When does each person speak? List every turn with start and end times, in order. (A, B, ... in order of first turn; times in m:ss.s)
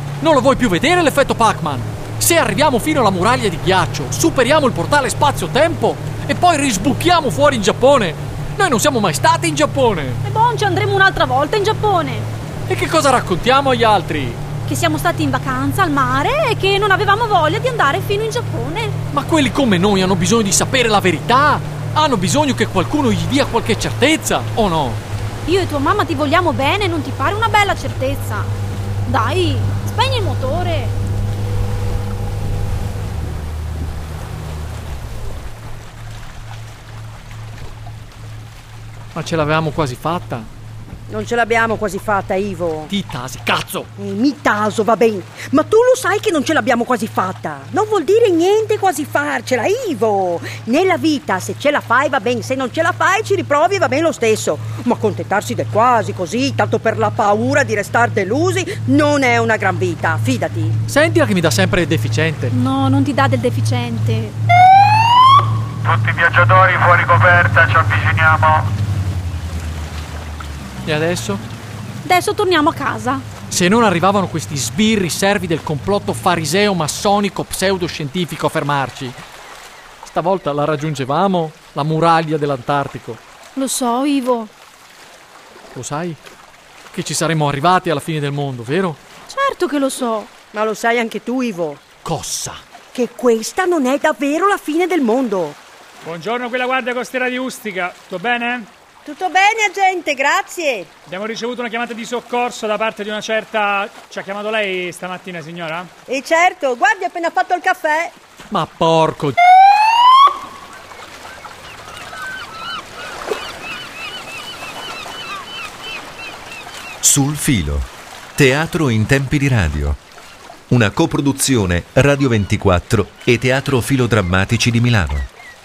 0:00.2-0:10.2 A
0:10.2-0:12.3 B
0:12.7-0:14.4 A
0:14.6-0:19.0 B
0:19.1-0:25.0 A
0:25.4-0:28.5 B
0:29.0-0:30.9 B
0:39.1-0:40.5 A
0:41.1-0:42.9 C
0:42.9-0:43.9 A
0:44.0-1:00.8 C
1:00.9-1:02.5 A
1:02.5-1:04.4 B
1:05.9-1:08.4 D
1:10.9-1:11.4 A
1:12.0-1:13.2 B
1:13.5-1:19.2 A
1:20.0-1:23.2 A
1:23.5-1:24.5 B
1:25.7-1:26.2 A
1:26.9-1:29.0 A
1:29.3-1:30.3 B
1:30.5-1:31.8 C
1:32.0-1:32.6 A
1:32.9-1:35.5 C
1:36.0-1:38.7 E
1:39.0-1:40.9 C
1:41.1-1:45.9 E
1:46.1-1:48.1 C
1:48.5-1:49.4 A
1:57.0-2:00.0 F
2:00.7-2:05.3 F